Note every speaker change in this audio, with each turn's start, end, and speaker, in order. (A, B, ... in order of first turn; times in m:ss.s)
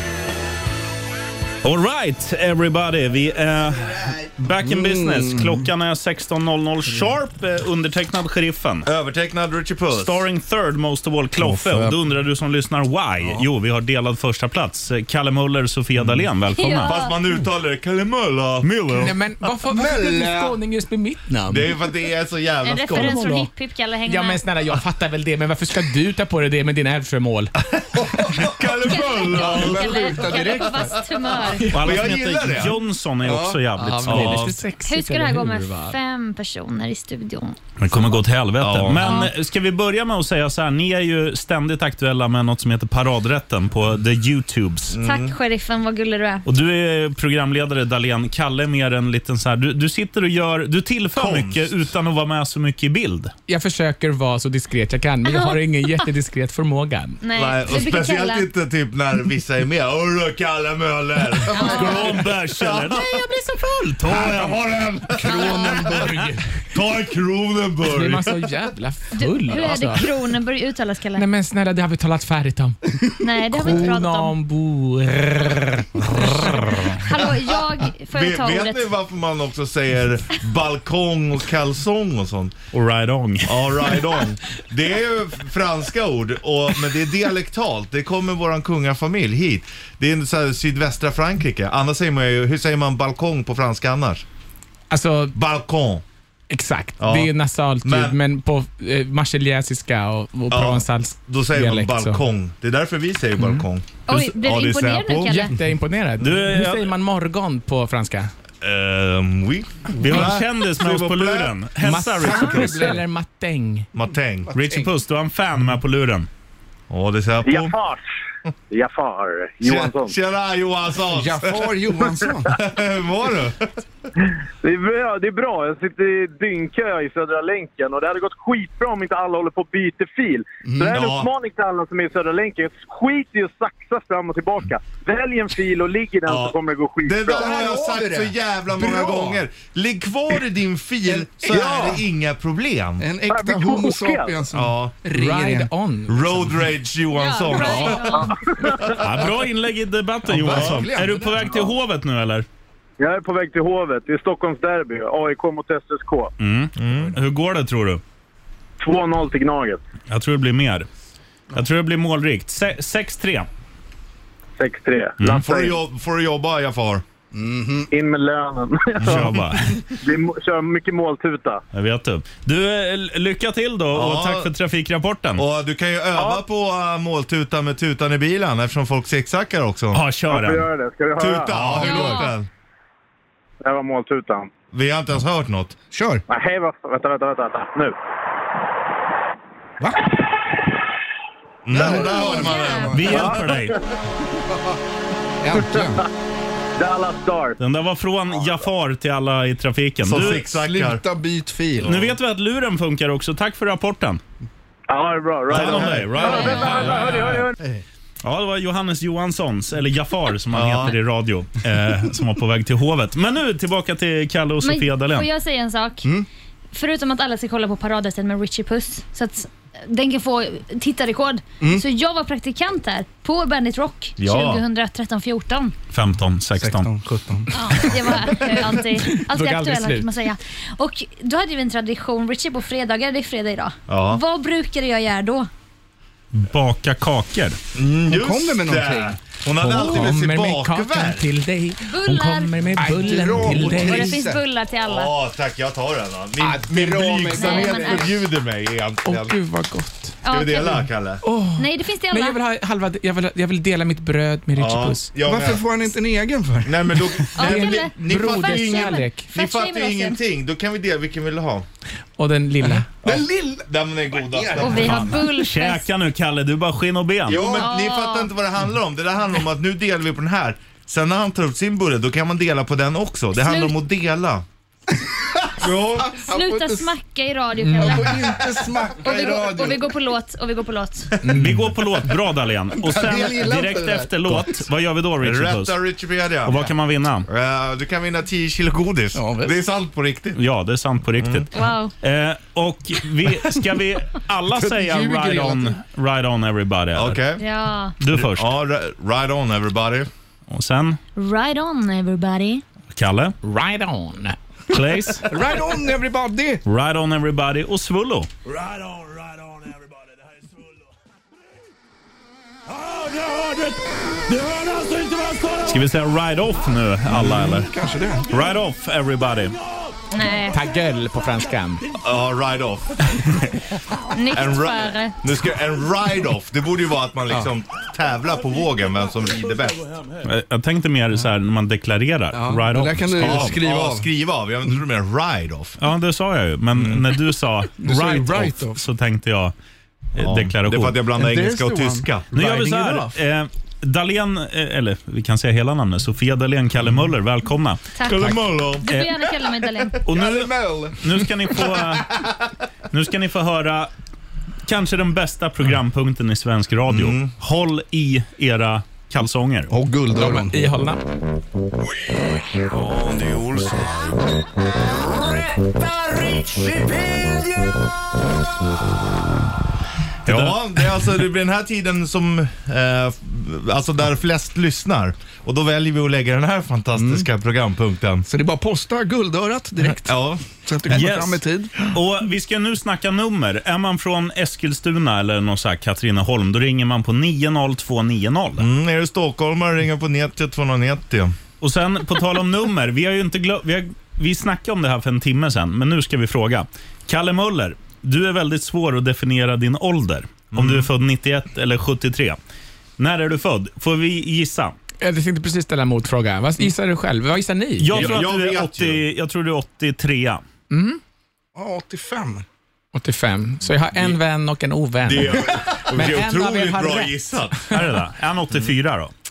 0:01.6-0:08.9 A
0:04.6-0:05.6 B
0:08.8-0:10.2 C
0:09.9-0:17.0 A
0:11.4-0:12.0 B
0:16.0-0:16.3 C
0:16.5-0:17.2 D
0:16.8-0:19.1 C
0:18.6-0:19.1 A
0:19.0-0:21.8 E
0:19.7-0:20.6 B
0:21.5-0:23.3 C
0:22.6-0:24.4 D
0:22.9-0:23.5 E
0:24.0-0:27.5 E
0:27.9-0:31.0 B
0:28.3-0:30.5 C
0:28.8-0:31.7 D
0:31.6-0:32.8 C
0:31.7-0:34.5 A
0:33.2-0:33.6 B
0:33.8-0:36.0 E
0:34.0-0:34.6 C
0:34.8-0:37.6 D
0:37.8-0:45.0 A
0:38.6-0:39.2 C
0:39.0-0:39.3 D
0:44.9-0:45.3 C
0:45.0-0:46.4 D
0:46.4-0:53.3 A
0:51.1-0:51.8 C
0:53.5-0:57.2 E
0:55.2-0:56.1 D
0:57.2-0:58.5 D
0:57.3-1:03.2 C
1:01.5-1:02.2 D
1:01.5-1:04.9 A
1:04.1-1:05.8 C
1:05.2-1:06.4 B
1:05.3-1:06.0 D
1:06.7-1:08.4 C
1:07.8-1:10.1 E
1:09.1-1:11.2 D
1:11.2-1:17.0 E
1:13.2-1:14.4 D
1:17.0-1:18.9 D
1:18.0-1:22.5 C
1:22.7-1:24.1 A
1:23.4-1:34.2 C
1:34.9-1:35.4 E
1:35.3-1:36.0 C
1:36.5-1:42.2 E
1:37.0-1:38.2 C
1:40.5-1:45.4 C
1:43.4-1:43.6 E
1:44.1-1:45.5 D
1:45.2-1:48.3 E
1:46.2-1:46.9 A
1:48.6-1:51.6 C
1:50.0-1:52.9 A
1:51.8-1:53.9 E
1:52.2-1:53.0 B
1:53.9-1:54.5 C
1:54.5-1:54.9 B
1:54.5-1:56.3 A
1:56.9-1:57.7 C
1:57.4-1:58.0 F
1:58.7-2:00.1 F
1:59.6-2:03.7 C
2:01.1-2:02.5 B
2:04.2-2:17.5 F
2:10.6-2:11.0 B
2:10.9-2:11.3 C
2:16.2-2:23.0 C
2:17.3-2:19.4 B
2:21.1-2:22.0 B
2:23.0-2:25.7 B
2:23.3-2:24.4 F
2:24.5-2:25.0 C
2:25.1-2:26.7 E
2:26.1-2:29.1 C
2:27.1-2:28.4 D
2:28.1-2:29.0 F
2:28.9-2:32.4 A
2:30.2-2:31.7 B
2:30.5-2:30.9 C
2:33.0-2:36.3 F
2:36.4-2:38.0 A
2:36.8-2:37.2 C
2:36.9-2:37.2 B
2:38.8-2:39.8 F
2:40.1-2:40.9 A
2:41.5-2:43.5 A
2:44.6-2:45.8 F
2:45.2-2:47.0 C
2:47.3-2:47.9 B
2:47.9-2:49.3 F
2:49.0-2:49.4 C
2:49.0-2:49.8 A
2:50.0-2:51.6 F
2:51.7-2:55.4 A
2:53.9-2:54.5 C
2:55.4-3:00.0 C
2:56.1-2:56.4 F
2:59.9-3:00.7 A
3:00.3-3:01.9 F
3:01.2-3:02.5 C
3:01.5-3:02.0 B
3:01.7-3:02.4 D
3:03.6-3:04.5 F
3:04.7-3:05.8 C
3:05.9-3:06.2 B
3:06.3-3:07.9 F
3:09.8-3:10.0 B
3:11.6-3:13.2 C
3:11.7-3:13.3 B
3:11.8-3:13.1 D
3:12.9-3:13.8 A
3:13.2-3:13.6 F
3:15.4-3:16.0 B
3:15.5-3:16.0 F
3:16.8-3:17.6 F
3:17.6-3:20.4 A
3:20.0-3:21.0 C
3:20.5-3:22.1 B
3:21.8-3:24.2 A
3:24.9-3:27.6 F
3:25.5-3:26.8 C
3:25.5-3:27.4 A
3:26.2-3:26.8 D
3:28.2-3:35.3 A
3:30.5-3:30.9 C
3:34.6-3:36.1 D
3:36.7-3:45.7 D
3:44.2-3:44.6 C
3:45.9-3:46.9 A
3:46.6-3:48.4 B
3:47.5-3:55.5 D
3:49.0-3:50.1 E
3:53.9-3:54.2 C
3:56.3-3:57.6 A
3:57.7-4:01.3 C
3:58.1-3:59.2 B
3:59.5-4:04.1 E
4:01.8-4:02.6 D
4:02.8-4:04.4 B
4:03.5-4:05.1 D
4:04.8-4:09.3 C
4:06.4-4:07.4 B
4:06.7-4:07.9 E
4:07.2-4:08.1 D
4:09.0-4:10.2 E
4:10.2-4:10.8 D
4:10.3-4:11.2 C
4:11.2-4:15.1 E
4:11.6-4:12.4 D
4:14.5-4:15.6 C
4:15.2-4:17.3 B
4:16.6-4:21.6 C
4:17.3-4:20.2 D
4:17.4-4:19.3 E
4:22.2-4:22.9 E
4:22.6-4:23.7 B
4:23.0-4:25.1 C
4:24.2-4:25.1 B
4:24.6-4:25.9 D
4:24.7-4:27.5 A
4:27.3-4:34.4 C
4:27.4-4:27.6 B
4:27.4-4:28.3 D
4:33.3-4:33.8 D
4:35.6-4:36.1 C
4:36.0-4:36.9 B
4:36.1-4:41.2 D
4:37.7-4:39.8 B
4:41.2-4:41.6 E
4:41.3-4:45.8 A
4:42.8-4:44.5 B
4:45.2-4:46.7 C
4:46.4-4:47.3 A
4:47.3-4:50.4 C
4:49.1-4:49.6 B
4:50.4-4:51.5 A
4:51.2-4:51.5 C
4:51.5-4:51.9 D
4:52.0-4:57.2 A
4:54.5-4:55.8 B
4:56.9-4:57.4 C
4:57.4-4:58.0 D
4:58.0-4:58.5 A
4:58.1-5:00.1 C
5:00.5-5:01.0 A
5:01.2-5:02.6 D
5:02.9-5:03.3 A
5:03.4-5:04.4 E
5:04.7-5:05.3 A
5:05.3-5:06.6 B
5:06.6-5:08.3 A
5:08.5-5:10.6 G
5:12.7-5:13.6 G
5:14.3-5:15.6 G
5:15.6-5:17.7 A
5:17.1-5:17.6 C
5:17.6-5:18.2 B
5:18.3-5:19.6 A
5:20.1-5:20.6 D
5:20.5-5:21.8 E
5:22.0-5:23.4 C
5:24.1-5:25.2 D
5:24.3-5:29.8 C
5:30.2-5:33.6 A
5:32.3-5:34.1 B
5:33.2-5:35.8 C
5:35.8-5:39.5 A
5:36.7-5:37.0 C
5:37.8-5:38.8 B
5:40.1-5:41.0 A
5:40.2-5:42.4 C
5:41.2-5:43.1 B
5:42.3-5:49.2 A
5:47.9-5:50.0 D
5:48.0-5:48.9 C
5:50.0-5:52.2 A
5:50.1-5:51.2 B
5:52.9-5:53.9 A
5:54.6-5:59.7 A
5:56.9-5:57.3 C
5:59.7-6:00.7 B
6:00.1-6:01.0 E
6:02.6-6:04.2 C
6:05.8-6:06.4 C
6:10.2-6:18.2 C
6:17.0-6:17.2 B
6:18.3-6:21.7 B
6:20.0-6:21.0 C
6:20.9-6:28.7 A
6:28.6-6:31.4 C
6:31.6-6:42.4 A
6:40.5-6:40.9 C
6:43.0-6:44.7 A
6:45.0-6:48.2 E
6:47.8-6:50.4 A
6:47.9-6:49.0 C
6:50.7-6:51.0 E
6:51.5-6:52.4 B
6:52.9-6:57.2 E
6:55.0-6:57.8 C
6:57.7-6:59.1 A